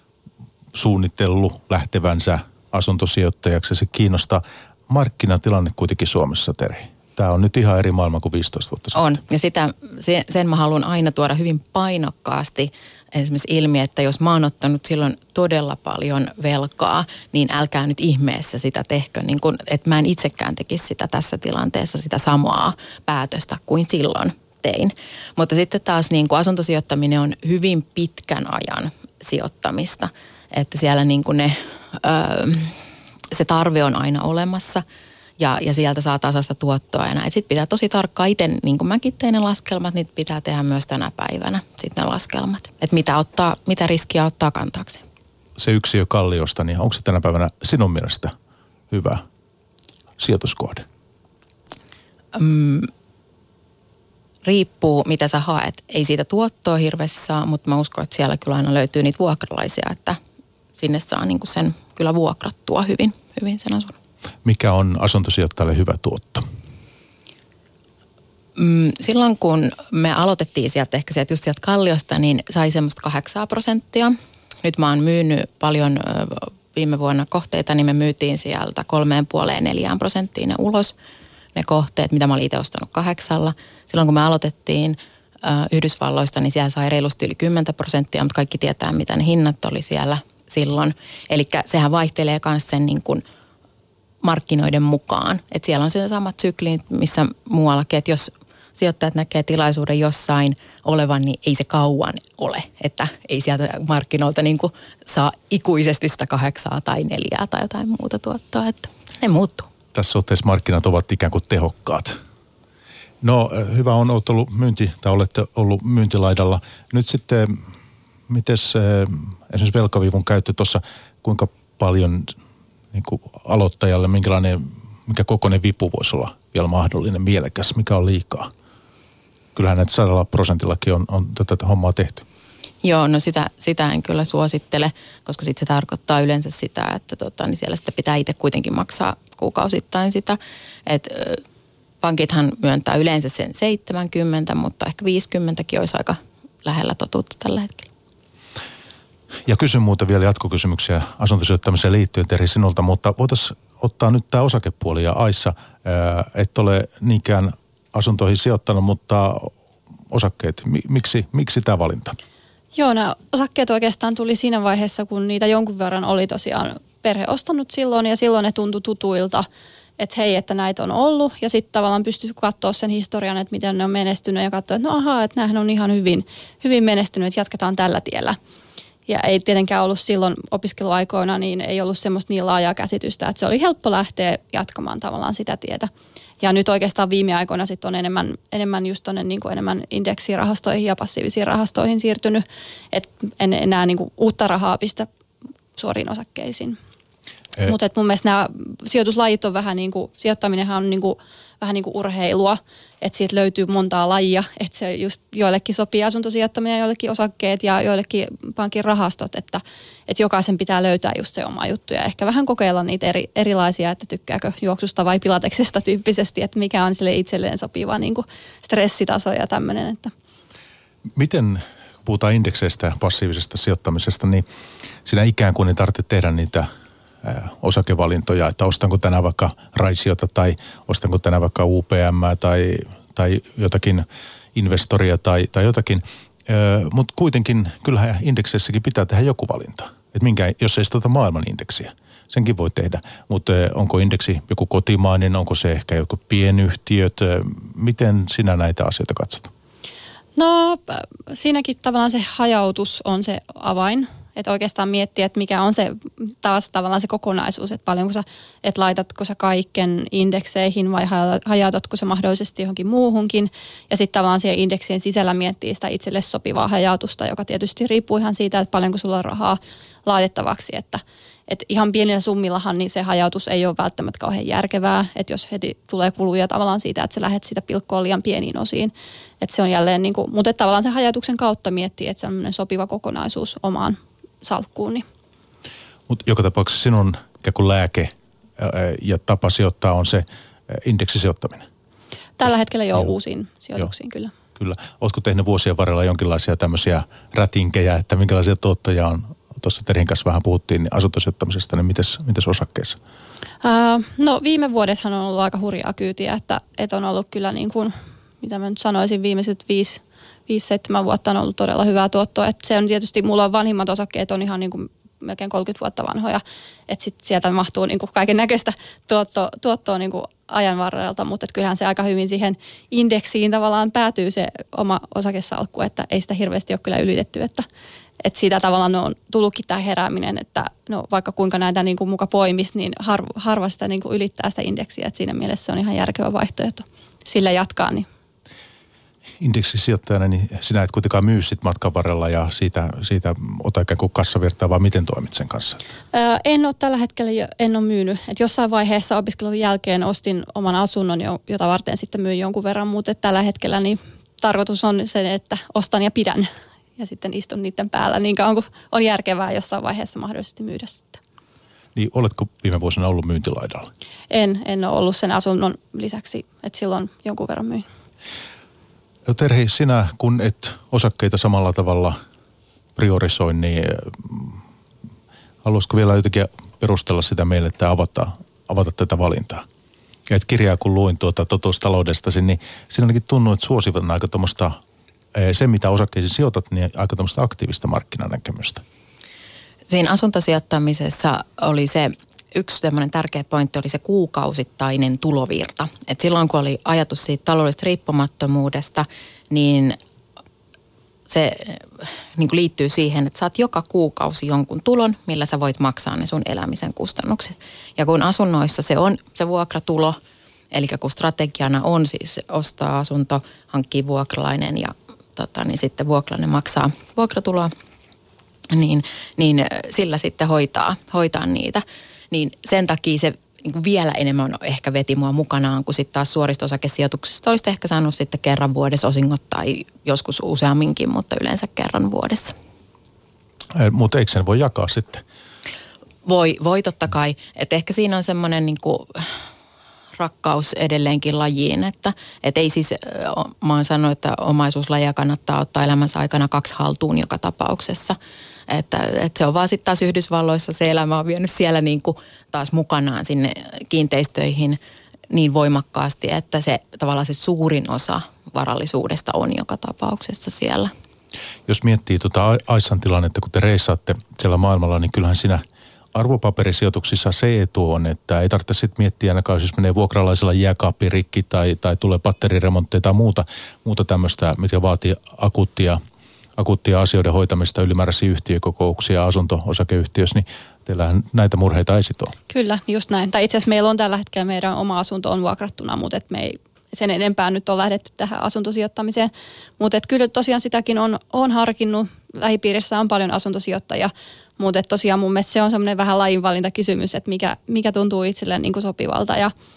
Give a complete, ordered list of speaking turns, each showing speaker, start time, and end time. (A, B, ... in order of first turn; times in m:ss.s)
0:00.7-0:09.2 A
0:08.9-0:32.8 B
0:33.3-0:34.8 B
0:35.4-0:45.0 B
0:45.6-0:48.3 A
0:48.9-0:49.2 A
0:50.2-0:50.8 A
0:52.3-0:52.9 B
0:54.4-1:00.2 B
1:00.8-1:04.0 B
1:04.4-1:06.4 A
1:08.6-1:20.9 B
1:21.6-1:33.2 B
1:34.2-1:49.7 B
1:49.9-1:52.2 A
1:53.2-1:57.7 A
1:58.3-2:02.3 A
2:02.9-2:08.5 A
2:09.6-2:12.2 A
2:12.8-2:21.4 B
2:22.0-2:27.9 B
2:29.5-2:39.5 A
2:40.1-2:42.2 A
2:42.7-2:49.5 C
2:50.0-2:58.4 C
2:59.1-3:05.9 C
3:06.4-3:15.1 C
3:15.8-3:16.8 C
3:17.6-3:40.1 C
3:41.2-3:44.4 A
3:45.0-3:46.7 A
3:47.2-4:09.5 A
4:10.4-4:45.1 C
4:46.1-4:51.7 A
4:52.4-4:54.3 C
4:54.6-5:03.0 A
5:03.6-5:27.7 C
5:28.2-5:38.1 C
5:39.4-5:45.8 A
5:46.1-6:01.2 C
6:02.0-6:03.9 A
6:04.3-6:07.9 C
6:09.3-6:12.2 A
6:13.0-6:14.6 A
6:15.6-6:19.6 A
6:20.3-6:24.8 A
6:25.3-6:28.8 A
6:29.9-6:40.0 B
6:41.3-6:50.2 B
6:50.7-6:57.7 B
6:58.7-7:12.5 B
7:13.7-7:15.2 A
7:16.2-7:19.4 B
7:20.2-7:28.2 B
7:28.7-7:34.8 B
7:35.3-7:40.9 B
7:41.7-7:56.0 A
7:56.6-8:02.3 A
8:02.5-8:19.5 C